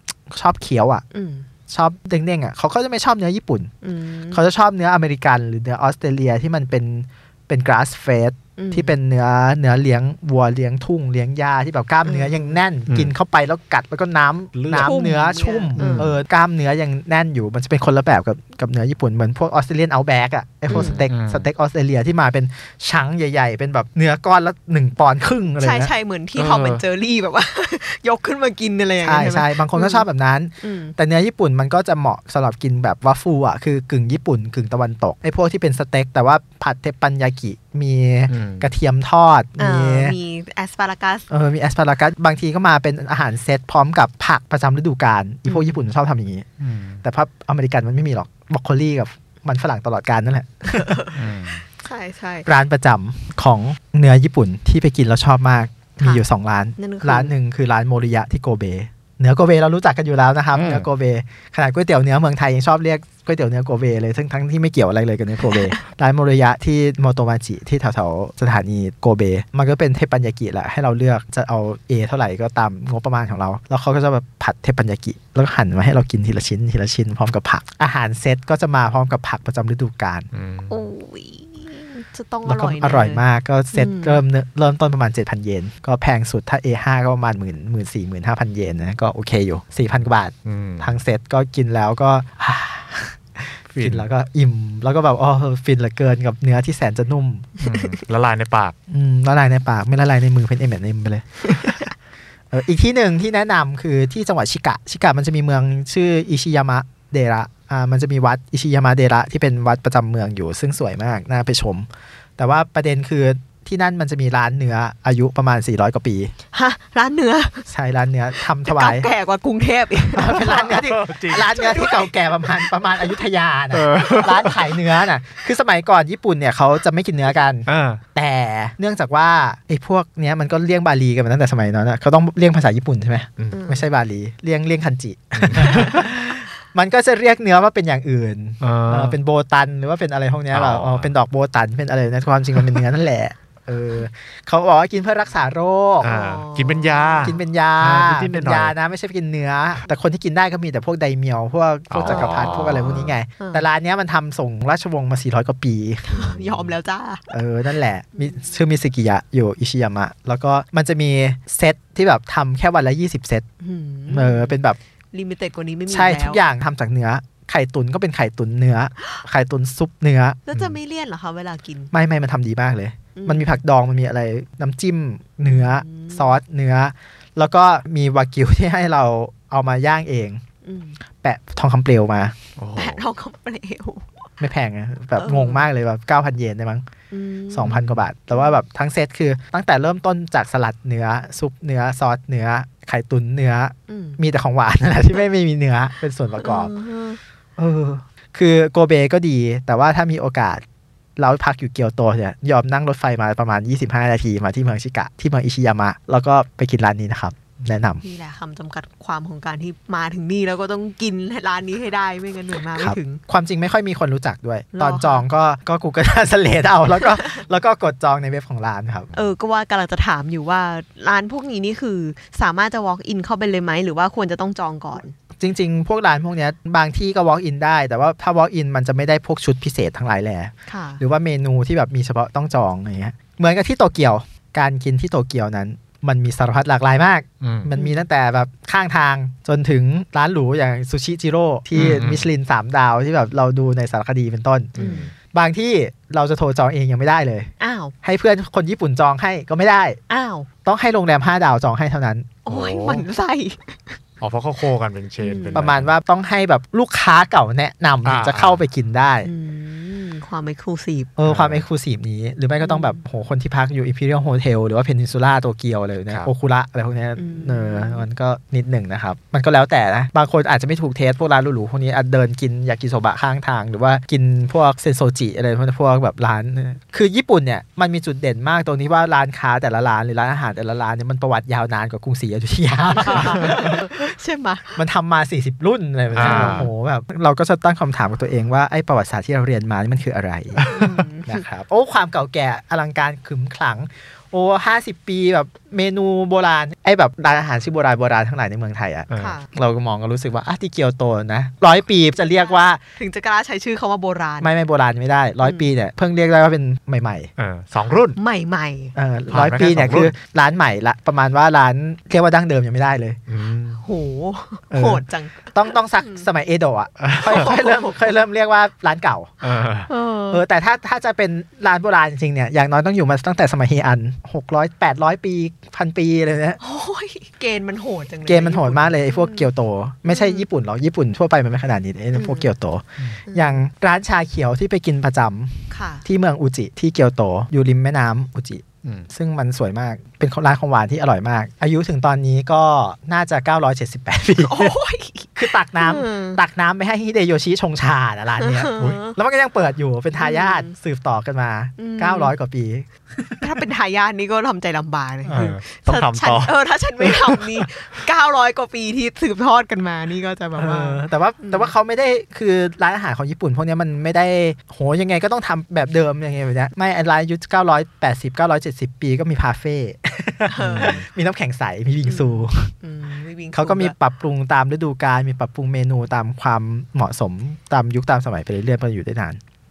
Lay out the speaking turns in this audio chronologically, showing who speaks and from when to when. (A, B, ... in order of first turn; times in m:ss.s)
0:00.3-0:01.0 A
0:01.1-0:01.5 B
0:01.7-0:03.7 A
0:03.8-0:04.4 B
0:04.3-0:25.9 A
0:08.6-0:09.0 B
0:12.0-0:12.6 B
0:14.6-0:14.9 C
0:14.8-0:16.2 B
0:15.8-0:16.1 C
0:20.7-0:21.0 B
0:20.7-0:21.5 C
0:25.6-0:30.1 B
0:26.4-0:26.8 C
0:29.0-0:40.2 A
0:30.6-0:31.0 B
0:38.3-0:38.7 C
0:39.6-0:41.3 B
0:41.3-0:46.5 A
0:45.5-0:45.8 B
0:46.6-0:47.0 C
0:47.0-0:51.0 A
0:50.7-0:52.5 B
0:51.2-0:51.6 C
0:52.5-1:20.3 A
0:56.0-0:56.2 B
0:56.8-0:57.3 B
1:00.5-1:00.9 C
1:05.4-1:05.8 B
1:20.3-1:20.7 C
1:20.7-1:23.2 B
1:22.4-1:37.5 A
1:23.7-1:24.2 B
1:30.4-1:31.0 C
1:33.8-1:34.1 C
1:37.6-1:38.7 C
1:37.6-1:38.0 B
1:38.9-1:41.8 A
1:42.5-1:51.9 A
1:52.4-1:56.3 A
1:56.5-1:57.7 B
1:57.7-1:59.1 A
1:58.6-2:00.8 B
2:00.2-2:26.1 A
2:00.4-2:01.6 C
2:01.3-2:02.7 B
2:03.7-2:04.6 C
2:07.7-2:08.0 C
2:13.5-2:13.9 B
2:15.4-2:16.0 C
2:18.6-2:19.2 C
2:20.5-2:21.1 C
2:26.0-2:28.7 C
2:26.0-2:27.4 B
2:27.2-2:36.2 A
2:31.9-2:33.0 C
2:32.0-2:33.6 B
2:36.1-2:37.3 B
2:36.2-2:36.7 C
2:37.3-2:43.5 A
2:38.2-2:38.5 B
2:43.6-2:44.6 B
2:44.1-2:44.8 A
2:45.1-2:46.4 B
2:45.9-2:50.4 A
2:50.5-2:51.9 B
2:51.9-3:00.4 A
2:53.2-2:53.6 B
2:55.5-2:56.4 B
3:00.6-3:01.0 B
3:01.2-3:02.4 A
3:02.6-3:03.0 C
3:02.8-3:04.3 B
3:04.4-3:06.9 A
3:05.2-3:05.7 B
3:07.1-3:08.6 B
3:07.5-3:16.7 A
3:13.9-3:14.2 B
3:16.4-3:17.2 B
3:17.6-3:20.6 A
3:21.2-3:28.0 A
3:28.0-3:33.2 B
3:32.8-3:39.1 A
3:34.7-3:35.2 B
3:37.0-3:37.4 B
3:39.1-3:45.2 B
3:45.4-4:04.7 A
3:50.7-3:51.0 B
3:57.4-3:57.7 C
3:57.8-3:58.0 B
4:01.8-4:02.3 C
4:04.8-4:05.1 C
4:04.8-4:05.1 B
4:05.3-4:07.5 A
4:07.6-4:07.9 B
4:08.0-4:10.0 A
4:10.1-4:10.5 B
4:10.6-4:12.4 A
4:12.4-4:14.0 B
4:12.5-4:13.1 C
4:14.2-4:15.9 C
4:15.2-4:15.6 B
4:15.6-4:19.3 A
4:18.0-4:18.6 C
4:19.2-4:21.1 B
4:21.2-4:44.0 A
4:21.3-4:21.6 C
4:22.6-4:23.0 B
4:27.2-4:28.0 B
4:43.0-4:44.8 B
4:44.8-5:02.8 A
4:46.1-4:46.7 C
4:46.2-4:46.7 B
4:50.7-4:51.4 B
4:59.1-4:59.4 C
4:59.2-4:59.5 B
5:02.2-5:04.5 B
5:04.4-5:07.3 A
5:05.4-5:05.7 B
5:07.4-5:08.2 C
5:08.2-5:09.0 B
5:09.0-5:13.2 A
5:09.3-5:10.1 C
5:13.3-5:13.8 C
5:13.8-5:16.3 B
5:14.7-5:19.3 A
5:17.0-5:17.5 C
5:17.3-5:18.1 B
5:19.4-5:19.9 C
5:19.9-5:20.4 B
5:20.3-5:26.6 A
5:26.6-5:29.5 B
5:28.3-5:44.8 A
5:30.1-5:30.5 B
5:32.1-5:32.5 B
5:33.3-5:33.6 B
5:35.7-5:36.0 B
5:44.4-5:46.4 B
5:45.4-5:53.5 A
5:48.4-5:49.2 B
5:50.2-5:50.7 B
5:51.8-5:52.3 B
5:53.4-6:01.7 B
5:55.3-5:57.7 C
6:00.6-6:12.7 A
6:10.5-6:11.0 B
6:10.6-6:11.0 C
6:12.0-6:13.9 B
6:13.5-6:19.4 A